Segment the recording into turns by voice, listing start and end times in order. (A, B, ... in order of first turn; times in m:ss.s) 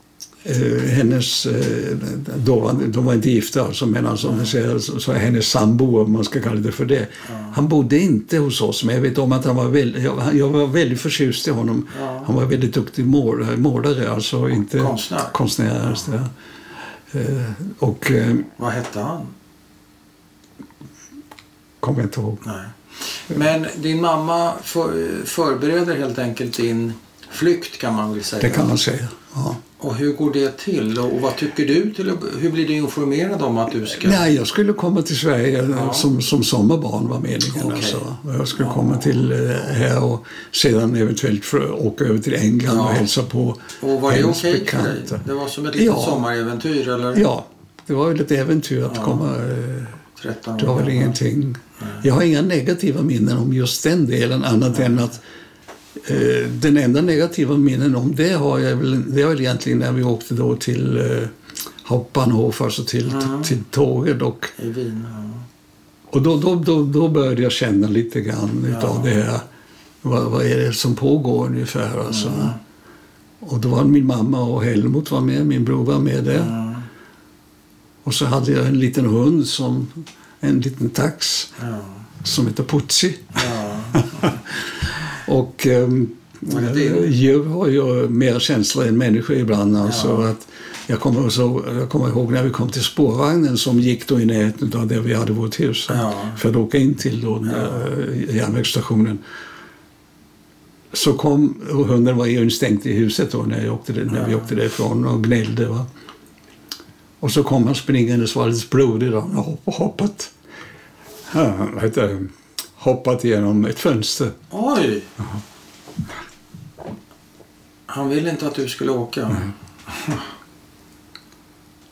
0:00.4-0:16.3 A
0:04.2-0:04.5 B
0:07.3-0:07.5 B
0:11.9-0:12.3 B
0:14.8-0:15.4 B
0:17.1-0:18.5 A
0:18.6-0:19.3 B
0:21.8-0:22.4 A
0:22.4-0:28.7 B
0:28.4-0:29.6 A
0:29.8-0:34.2 B
0:33.9-0:45.2 A
0:35.7-0:36.1 B
0:37.5-0:38.0 B
0:38.6-0:39.0 B
0:42.7-0:43.1 B
0:43.8-0:47.2 B
0:45.8-0:46.2 A
0:47.1-0:50.0 A
0:48.9-0:49.3 B
0:50.2-0:51.2 B
0:50.6-0:55.2 A
0:56.0-1:01.3 A
1:01.8-1:04.5 A
1:03.1-1:03.5 B
1:04.6-1:05.5 B
1:06.1-1:09.4 A
1:08.7-1:09.2 B
1:10.0-1:12.6 A
1:12.1-1:12.6 B
1:13.4-1:16.6 A
1:16.3-1:16.9 B
1:18.0-1:21.6 A
1:21.6-1:22.0 B
1:22.2-1:39.2 A
1:23.4-1:24.3 B
1:26.5-1:27.1 B
1:29.8-1:30.3 B
1:35.9-1:36.4 B
1:37.5-1:37.7 B
1:40.9-1:45.9 A
1:44.1-1:44.5 B
1:47.2-1:50.3 A
1:51.3-1:54.4 A
1:54.5-1:55.1 B
1:57.9-2:00.2 B